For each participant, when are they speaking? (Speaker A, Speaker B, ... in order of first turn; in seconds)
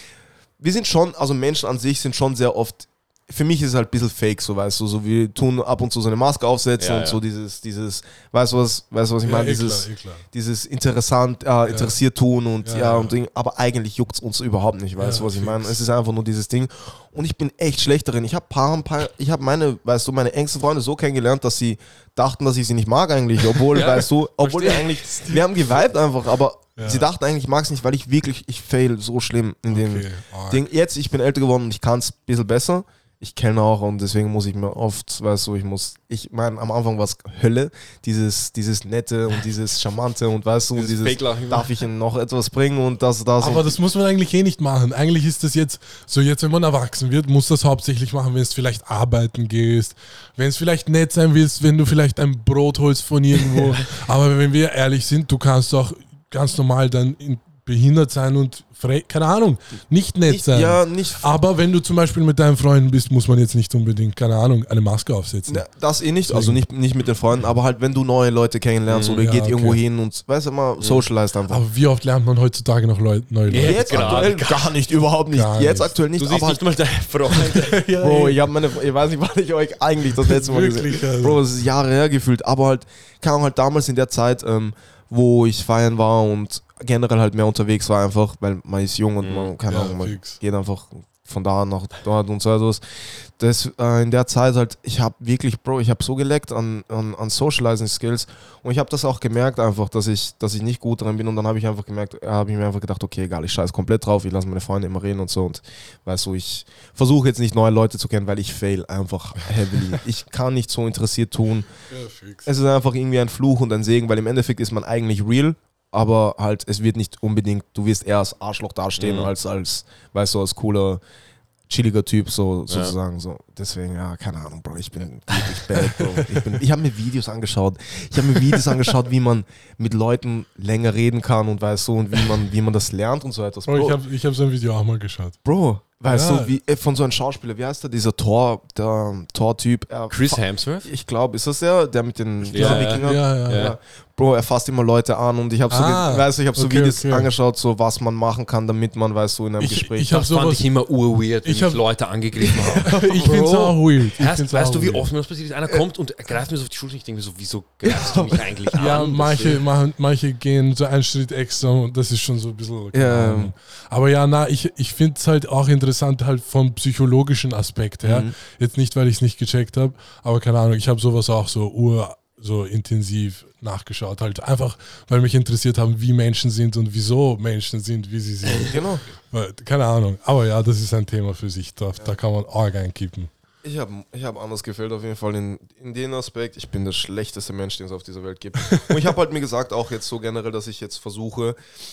Speaker A: 0.6-43.8, 53.4-53.8, 60.3-61.3, 65.5-71.6, 73.6-76.6, 78.0-111.7, 112.5-121.0, 121.7-134.0, 135.4-150.2, 152.4-153.5, 157.8-159.0, 162.9-163.5, 168.0-168.3, 178.6-179.0, 183.6-191.6
Speaker B: 6.8-7.2, 23.7-25.4, 40.8-41.7, 68.9-69.2, 73.5-74.7, 76.2-77.8, 89.2-89.5, 119.0-119.3, 122.7-122.9, 140.1-140.9, 142.4-143.8, 149.7-159.6
Speaker C: 9.2-10.2, 11.7-11.9, 12.6-13.1, 15.0-15.8, 26.8-27.1, 29.7-30.6, 43.4-65.6, 66.2-66.6, 69.2-69.8, 71.5-74.3, 75.3-76.0, 77.3-78.4, 80.2-81.4, 89.7-90.4, 111.9-112.5, 125.8-126.4, 133.7-135.4, 136.1-136.5, 142.6-143.6, 145.7-147.3, 149.9-150.6, 151.4-151.8, 152.8-155.1, 158.7-183.3, 188.6-188.9